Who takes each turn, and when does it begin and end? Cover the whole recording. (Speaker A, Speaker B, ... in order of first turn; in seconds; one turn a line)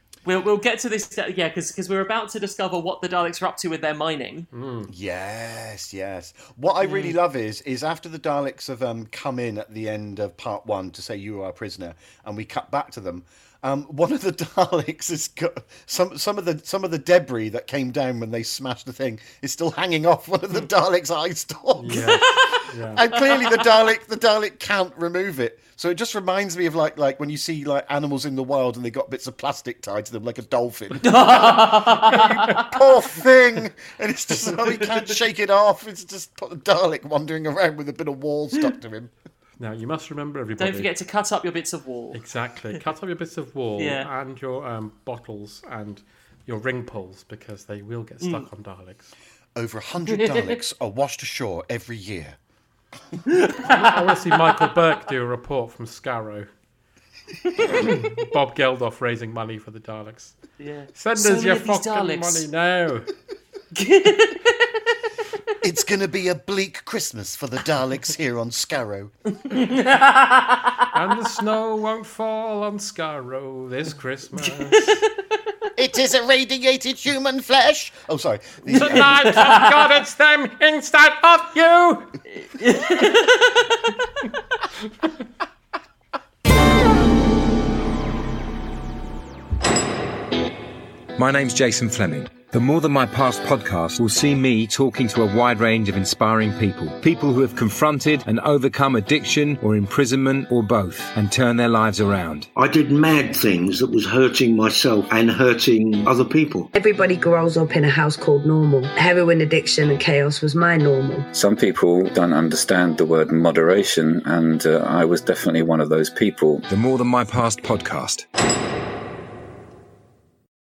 Speaker A: 0.2-4.5
Speaker B: 4.5-4.9
Speaker C: 4.9-39.1
Speaker B: 6.8-7.2
Speaker B: 21.8-23.0
Speaker A: 21.9-23.6
Speaker A: 31.0-32.8
Speaker B: 39.6-40.9
Speaker A: 40.6-42.2
Speaker B: 42.1-49.1
Speaker A: 43.8-44.1
Speaker A: 48.2-48.5
Speaker C: 49.5-52.4
Speaker A: 50.1-50.6
Speaker A: 53.3-54.7
Speaker B: 53.6-56.5
Speaker B: 57.6-60.4
Speaker A: 57.7-58.0
Speaker A: 60.6-62.5
Speaker B: 61.0-63.1
Speaker A: 63.8-64.8
Speaker C: 65.6-69.1
Speaker A: 69.4-70.9
Speaker B: 70.9-75.0
Speaker A: 74.5-75.1
Speaker C: 75.8-79.2
Speaker B: 78.7-82.2
Speaker A: 78.7-79.9
Speaker A: 82.3-84.0
Speaker D: 91.2-102.5
Speaker E: 102.5-106.7
Speaker F: 106.7-111.3
Speaker G: 111.3-116.7
Speaker D: 116.7-118.3